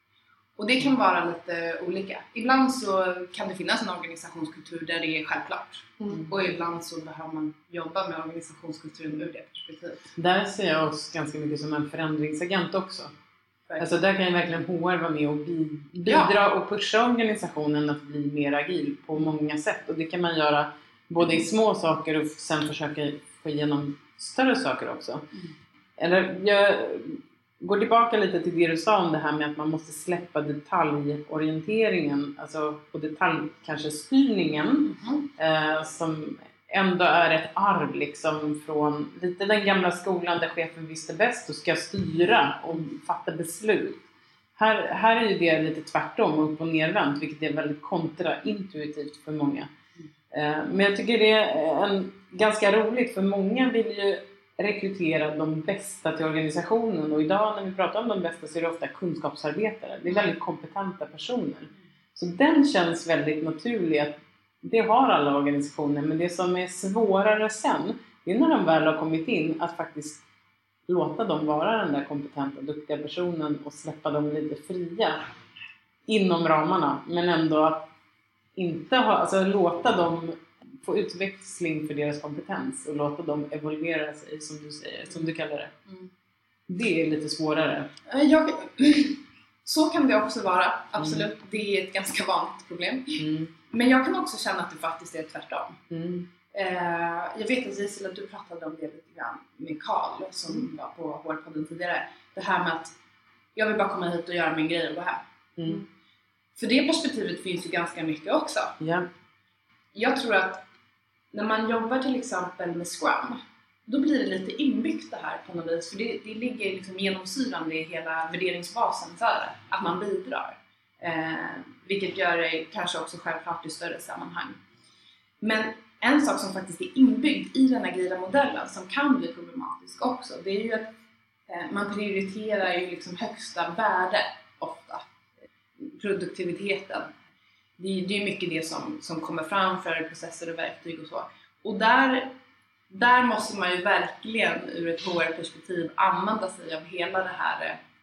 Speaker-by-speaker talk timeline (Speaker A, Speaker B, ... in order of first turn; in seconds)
Speaker A: 0.6-10.1, 16.1-16.3, 34.9-35.2, 88.1-95.8, 96.5-102.9, 103.5-105.2, 106.6-108.8, 109.9-110.6, 111.3-124.6, 125.4-130.9, 131.5-135.0, 135.8-137.1, 137.8-142.3, 142.9-147.8
Speaker B: 10.2-13.1, 13.8-25.2, 26.0-44.0, 44.6-49.7, 50.3-70.2, 70.9-75.2, 76.1-77.9, 78.5-85.7, 86.7-87.9, 93.2-93.5, 95.9-96.3, 105.6-105.8, 108.8-109.1